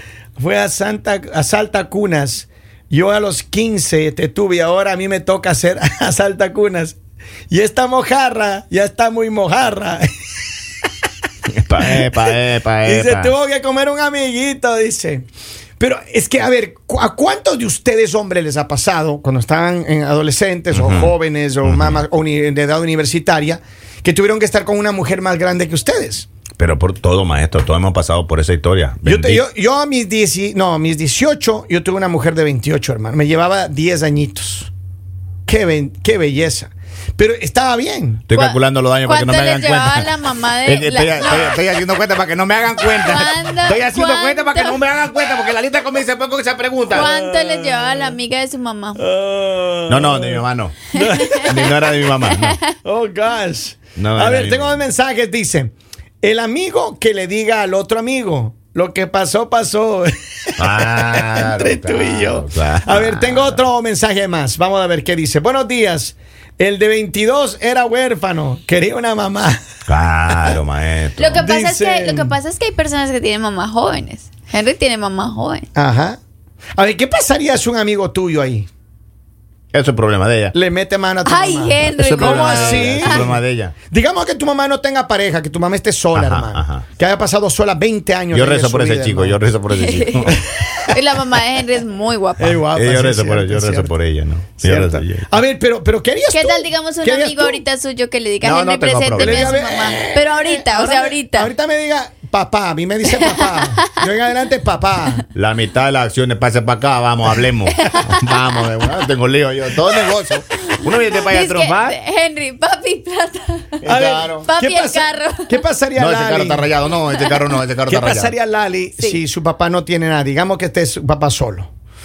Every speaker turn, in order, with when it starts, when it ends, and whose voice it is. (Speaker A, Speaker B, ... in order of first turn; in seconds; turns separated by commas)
Speaker A: 0.4-7.0, Speaker A: 7.5-10.1, Speaker B: 11.5-13.3, Speaker A: 11.8-15.3, Speaker A: 15.8-26.3, Speaker B: 20.7-21.1, Speaker B: 21.6-22.0, Speaker B: 26.6-29.4, Speaker A: 29.1-34.7, Speaker A: 35.5-38.3, Speaker B: 38.3-40.1, Speaker C: 38.3-41.6, Speaker B: 40.6-47.1, Speaker C: 43.0-44.8, Speaker C: 46.9-49.0, Speaker A: 46.9-48.2, Speaker A: 49.0-51.8, Speaker B: 49.9-50.9, Speaker C: 51.0-51.7, Speaker B: 51.4-52.6, Speaker C: 52.3-52.7, Speaker A: 52.8-69.6, Speaker B: 54.0-54.8, Speaker B: 60.6-63.6, Speaker B: 69.9-71.4, Speaker C: 71.2-75.7, Speaker A: 71.4-72.3, Speaker A: 75.8-76.2, Speaker A: 76.8-78.7, Speaker B: 79.7-80.5, Speaker A: 80.5-89.4, Speaker C: 81.2-83.3, Speaker B: 81.9-83.8, Speaker B: 86.1-86.9, Speaker B: 88.3-90.4, Speaker C: 89.7-92.7, Speaker A: 90.3-91.0, Speaker A: 92.4-93.9, Speaker B: 92.7-95.3, Speaker A: 94.6-97.6, Speaker C: 96.3-101.5, Speaker B: 98.4-99.5, Speaker A: 99.2-105.2, Speaker C: 103.1-103.8, Speaker B: 105.3-112.0, Speaker C: 107.7-108.5, Speaker C: 110.7-113.8, Speaker A: 113.8-116.7, Speaker B: 113.8-114.5, Speaker C: 114.4-115.6, Speaker B: 116.0-118.3, Speaker C: 117.1-117.5, Speaker A: 117.9-121.7